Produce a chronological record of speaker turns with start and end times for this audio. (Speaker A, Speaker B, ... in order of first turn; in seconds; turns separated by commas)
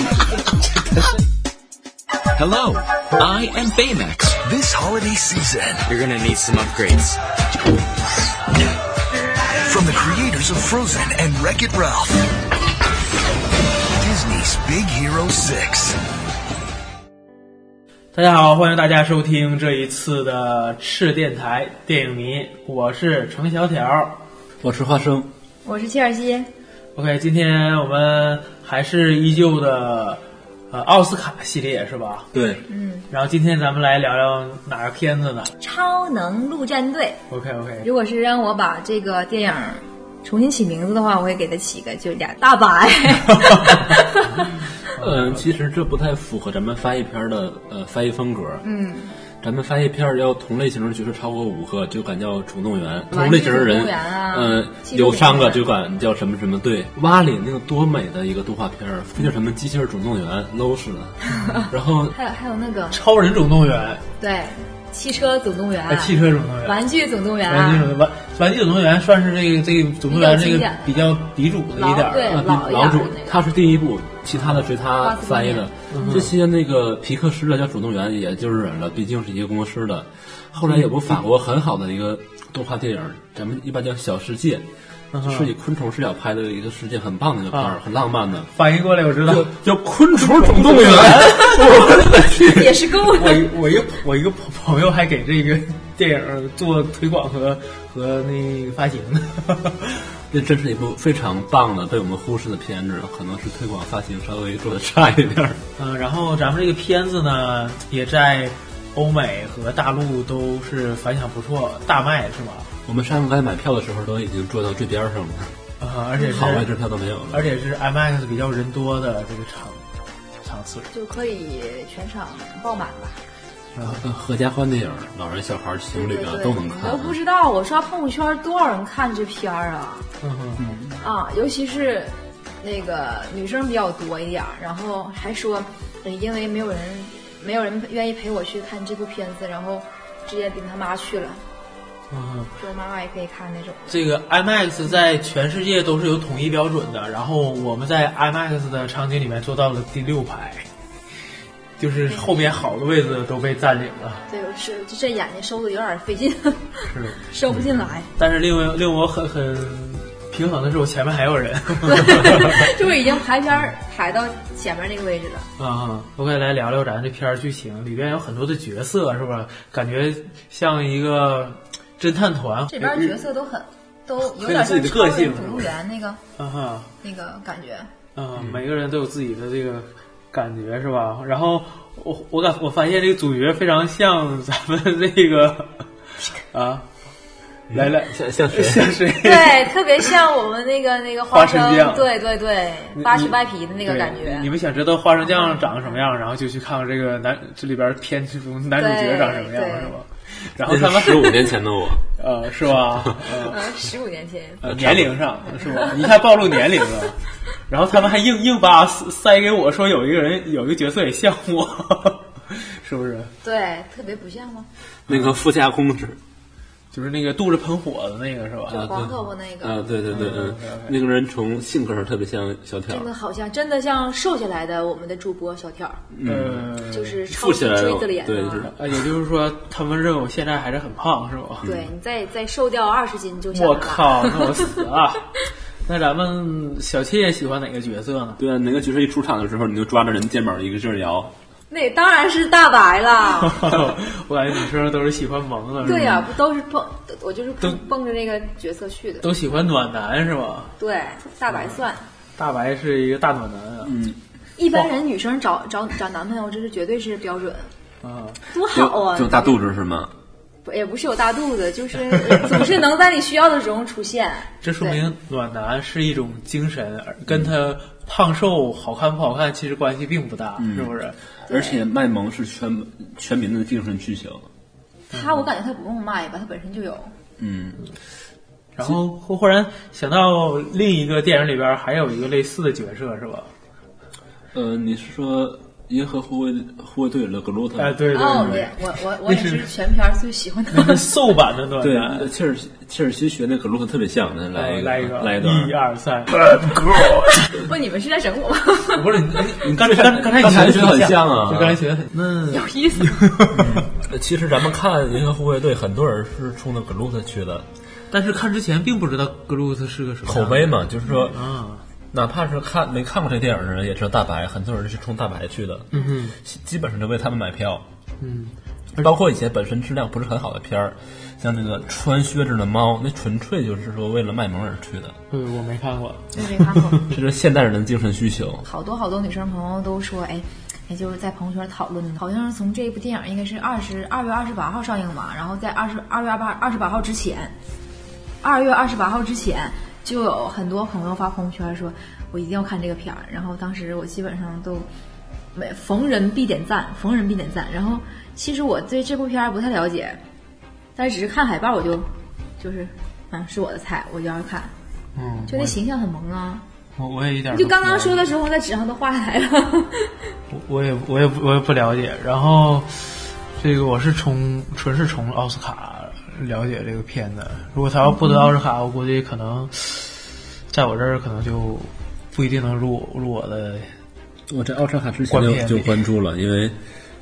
Speaker A: 2.4-4.4, Speaker B: 4.4-5.8, Speaker A: 5.9-7.2, Speaker B: 9.6-12.2, Speaker B: 14.0-16.0, Speaker C: 18.1-24.2, Speaker D: 24.6-25.3, Speaker E: 25.6-26.5, Speaker C: 26.9-32.3, Speaker D: 32.3-32.6, Speaker E: 32.7-33.1, Speaker C: 33.1-35.5, Speaker E: 35.6-37.2, Speaker C: 37.3-37.9, Speaker E: 37.8-44.6, Speaker D: 45.0-48.6, Speaker C: 45.0-45.5, Speaker E: 48.6-49.1, Speaker D: 49.4-62.1, Speaker E: 53.1-55.7, Speaker E: 61.3-63.0, Speaker C: 62.9-64.0, Speaker E: 64.2-67.9, Speaker C: 65.9-66.8, Speaker C: 67.5-72.5, Speaker E: 70.1-71.1, Speaker E: 71.8-73.4, Speaker D: 72.2-84.7, Speaker C: 74.3-74.6, Speaker E: 75.0-76.2, Speaker C: 75.9-76.3, Speaker C: 80.6-81.2, Speaker C: 85.1-85.5, Speaker D: 85.2-88.5, Speaker C: 87.5-87.8, Speaker C: 88.5-89.5, Speaker D: 89.3-92.5, Speaker C: 90.2-100.1, Speaker E: 91.4-93.5, Speaker D: 100.3-105.6, Speaker C: 105.8-112.7, Speaker D: 112.9-115.6, Speaker C: 115.8-116.7, Speaker D: 116.3-117.5, Speaker C: 117.3-119.8, Speaker C: 120.4-120.9, Speaker E: 120.9-123.2, Speaker C: 123.8-124.0, Speaker D: 123.8-127.2, Speaker E: 125.9-130.1, Speaker C: 130.2-130.6, Speaker D: 130.6-131.0, Speaker E: 131.0-141.4, Speaker C: 142.1-142.6, Speaker E: 142.6-144.0, Speaker C: 143.9-150.7, Speaker C: 151.8-154.2, Speaker E: 154.3-158.1, Speaker C: 156.9-157.2, Speaker C: 158.2-162.7, Speaker E: 161.9-165.5, Speaker C: 165.6-173.2, Speaker E: 172.7-176.2, Speaker C: 174.2-175.7, Speaker C: 176.4-176.9, Speaker E: 177.0-177.9, Speaker C: 178.2-185.8, Speaker C: 186.4-186.8, Speaker D: 187.7-189.0, Speaker C: 187.7-189.8, Speaker E: 189.2-194.5, Speaker C: 191.3-192.1, Speaker C: 192.9-201.6, Speaker E: 195.2-196.0, Speaker E: 198.8-199.9, Speaker D: 200.7-202.0, Speaker C: 202.2-203.6, Speaker E: 203.3-204.8, Speaker C: 204.6-207.2, Speaker D: 204.7-205.2, Speaker E: 205.4-206.2, Speaker C: 207.7-213.3, Speaker E: 213.4-214.7, Speaker D: 215.1-216.2, Speaker C: 215.1-215.3, Speaker C: 216.9-218.9, Speaker D: 218.7-223.1, Speaker E: 218.7-219.8, Speaker C: 220.1-221.0, Speaker E: 222.9-226.0, Speaker D: 226.1-228.8, Speaker C: 226.2-227.2, Speaker E: 226.9-228.7, Speaker C: 228.7-231.7, Speaker D: 231.6-231.9, Speaker E: 231.6-234.4, Speaker C: 233.5-235.3, Speaker C: 235.8-238.4, Speaker D: 238.4-241.3, Speaker E: 241.7-243.8, Speaker C: 243.6-246.2, Speaker E: 245.8-249.3, Speaker C: 249.2-250.7, Speaker E: 250.8-252.1, Speaker C: 251.5-251.8, Speaker C: 252.4-254.0, Speaker D: 253.8-254.2, Speaker E: 254.6-257.7, Speaker C: 258.0-258.4, Speaker E: 258.5-259.6, Speaker D: 258.7-260.1, Speaker E: 260.6-265.0, Speaker C: 264.6-271.8, Speaker D: 270.6-271.0, Speaker E: 271.5-271.8, Speaker D: 271.5-274.5, Speaker E: 275.1-277.1, Speaker C: 275.1-275.4, Speaker D: 277.4-277.8, Speaker C: 278.8-283.5, Speaker D: 284.5-288.6, Speaker C: 287.8-289.7, Speaker E: 288.1-291.1, Speaker C: 290.7-292.3, Speaker D: 291.8-295.8, Speaker C: 294.5-296.6, Speaker D: 296.5-297.3, Speaker E: 297.3-299.4, Speaker C: 298.9-303.9, Speaker D: 299.7-301.9, Speaker E: 302.5-303.3, Speaker D: 303.5-307.7, Speaker C: 308.1-311.8, Speaker D: 310.2-311.4, Speaker D: 312.1-315.9, Speaker C: 315.9-316.4, Speaker D: 316.4-317.9, Speaker C: 318.2-319.1, Speaker D: 319.0-325.2, Speaker C: 325.3-327.1, Speaker E: 326.3-327.1, Speaker D: 327.1-328.7, Speaker E: 328.6-337.6, Speaker E: 338.4-344.9, Speaker E: 345.5-350.2, Speaker E: 351.0-354.7, Speaker C: 355.1-355.8, Speaker E: 355.5-356.6, Speaker C: 357.0-358.3, Speaker E: 357.5-360.3, Speaker C: 360.5-373.9, Speaker E: 368.1-368.5, Speaker D: 374.5-376.8, Speaker C: 375.3-376.0